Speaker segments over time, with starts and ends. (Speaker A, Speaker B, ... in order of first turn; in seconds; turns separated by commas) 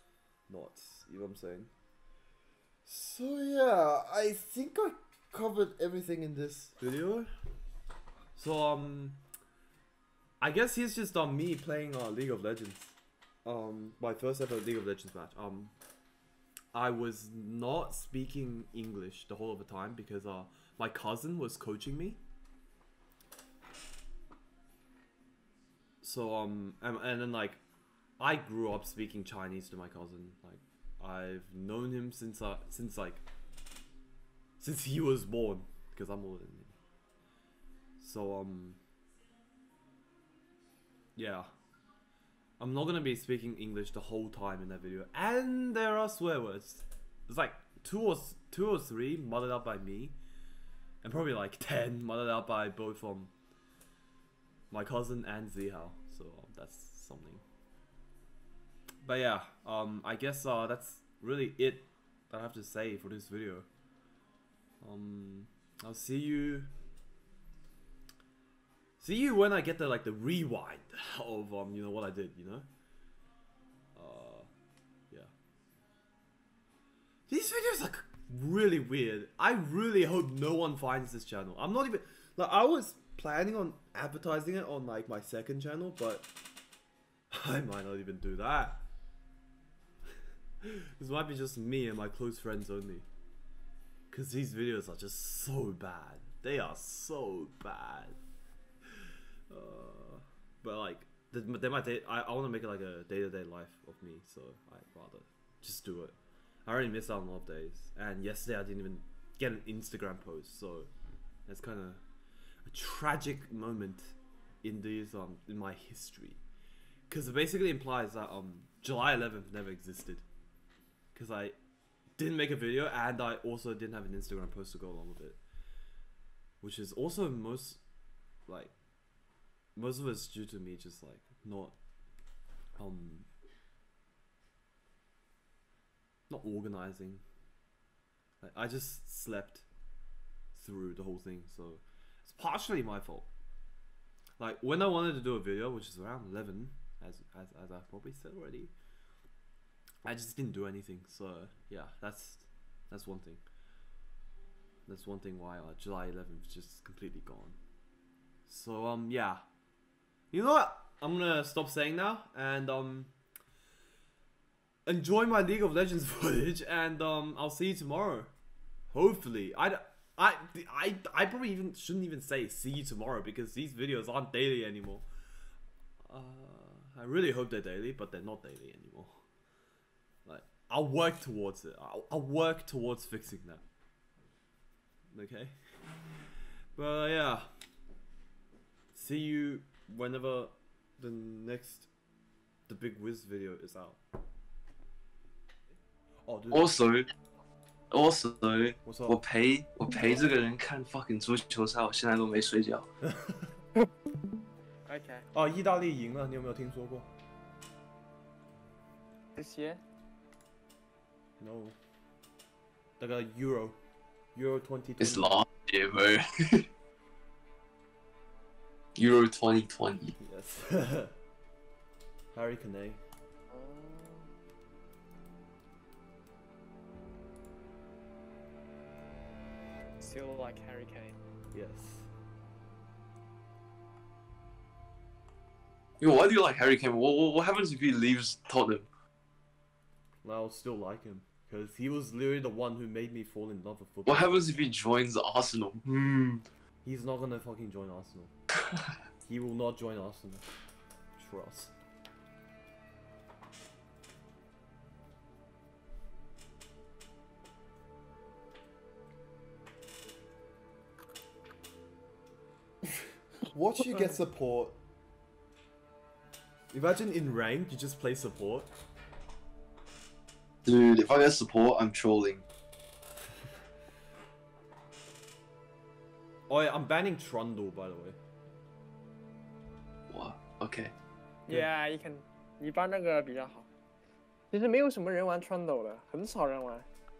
Speaker A: 0.5-1.7, Speaker A: 2.9-7.3, Speaker A: 8.3-9.2, Speaker A: 10.4-12.9, Speaker A: 13.4-15.7, Speaker A: 16.7-22.2, Speaker A: 26.0-27.6, Speaker A: 28.2-33.2, Speaker A: 34.6-36.8, Speaker A: 38.0-38.8, Speaker A: 41.1-41.5, Speaker A: 42.6-50.2, Speaker A: 51.0-53.3, Speaker A: 54.7-57.4, Speaker A: 59.0-63.7, Speaker A: 64.8-66.7, Speaker A: 69.0-72.7, Speaker A: 73.9-74.5, Speaker A: 77.3-86.3, Speaker A: 87.3-88.8, Speaker A: 90.6-93.0, Speaker A: 94.1-98.2, Speaker A: 99.5-110.9, Speaker A: 111.5-112.0, Speaker A: 112.7-116.4, Speaker A: 117.1-120.2, Speaker A: 121.1-121.6, Speaker A: 122.2-125.4, Speaker A: 126.6-127.8, Speaker A: 128.5-128.7, Speaker A: 129.8-131.8, Speaker A: 132.8-133.3, Speaker A: 136.3-137.2, Speaker A: 138.4-139.6, Speaker A: 140.5-143.3, Speaker A: 144.4-148.7, Speaker A: 150.0-153.4, Speaker A: 154.9-157.6, Speaker A: 158.5-159.4, Speaker A: 160.3-163.1, Speaker A: 164.8-168.3, Speaker A: 168.9-175.1, Speaker A: 176.1-179.2, Speaker A: 180.2-183.6, Speaker A: 185.1-185.5, Speaker A: 186.7-187.5, Speaker A: 188.9-191.9, Speaker A: 192.7-194.0, Speaker A: 196.2-196.7, Speaker B: 196.5-197.1, Speaker B: 197.9-202.9, Speaker A: 198.8-199.2, Speaker A: 203.0-203.5, Speaker C: 204.9-205.3, Speaker A: 205.3-207.1, Speaker C: 209.3-209.8, Speaker A: 211.4-211.8, Speaker A: 213.0-213.8, Speaker A: 214.3-215.4, Speaker B: 215.0-216.7, Speaker B: 218.9-220.2, Speaker A: 220.2-221.1, Speaker A: 222.3-223.0, Speaker C: 223.5-224.3, Speaker C: 230.0-231.1, Speaker A: 231.5-232.1, Speaker B: 236.0-238.9, Speaker A: 240.2-244.7, Speaker B: 244.1-246.4, Speaker A: 246.8-248.3, Speaker A: 249.2-250.4, Speaker A: 251.2-251.7, Speaker A: 263.5-264.8, Speaker A: 266.7-268.7, Speaker B: 270.6-272.4, Speaker A: 276.5-278.2, Speaker B: 280.1-280.9, Speaker C: 281.5-283.6, Speaker C: 284.5-286.9